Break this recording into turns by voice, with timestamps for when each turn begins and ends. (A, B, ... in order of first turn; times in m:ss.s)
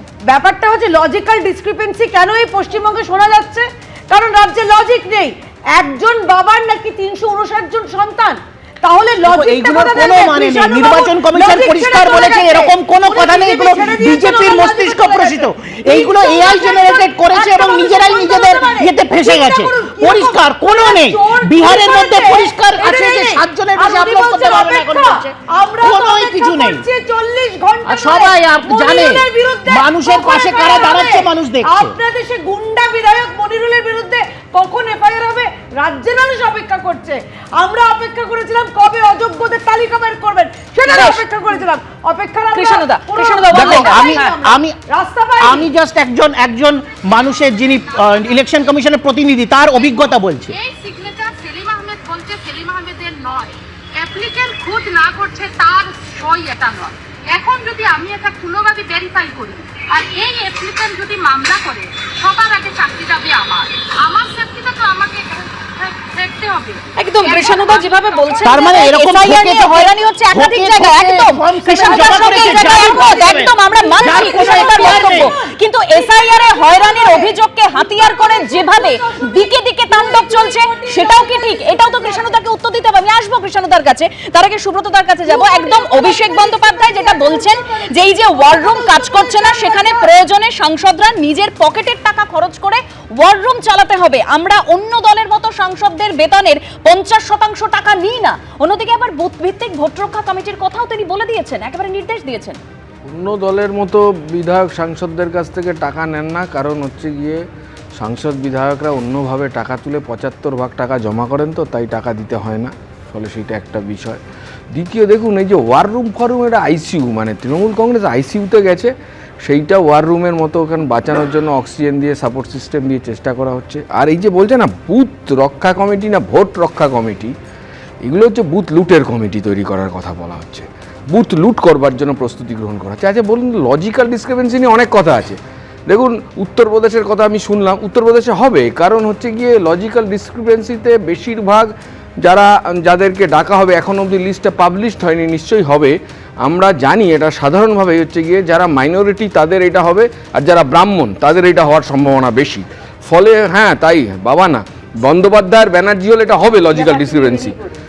0:00.3-0:45.7 A
0:09.3-0:26.8 B
0:27.9-0:32.0 B
0:40.9-0:41.2 C
0:42.5-0:44.3 C
0:43.5-0:44.8 B
0:45.4-0:50.6 B
0:50.5-1:08.8 D
1:07.0-1:42.6 C
1:08.4-1:15.3 B
1:11.8-1:22.4 A
1:25.3-1:30.2 A
1:43.1-1:47.4 E
1:48.0-1:54.2 E
1:54.7-1:58.9 E
1:59.4-2:07.3 E
2:08.0-2:37.6 E
2:36.7-2:37.7 A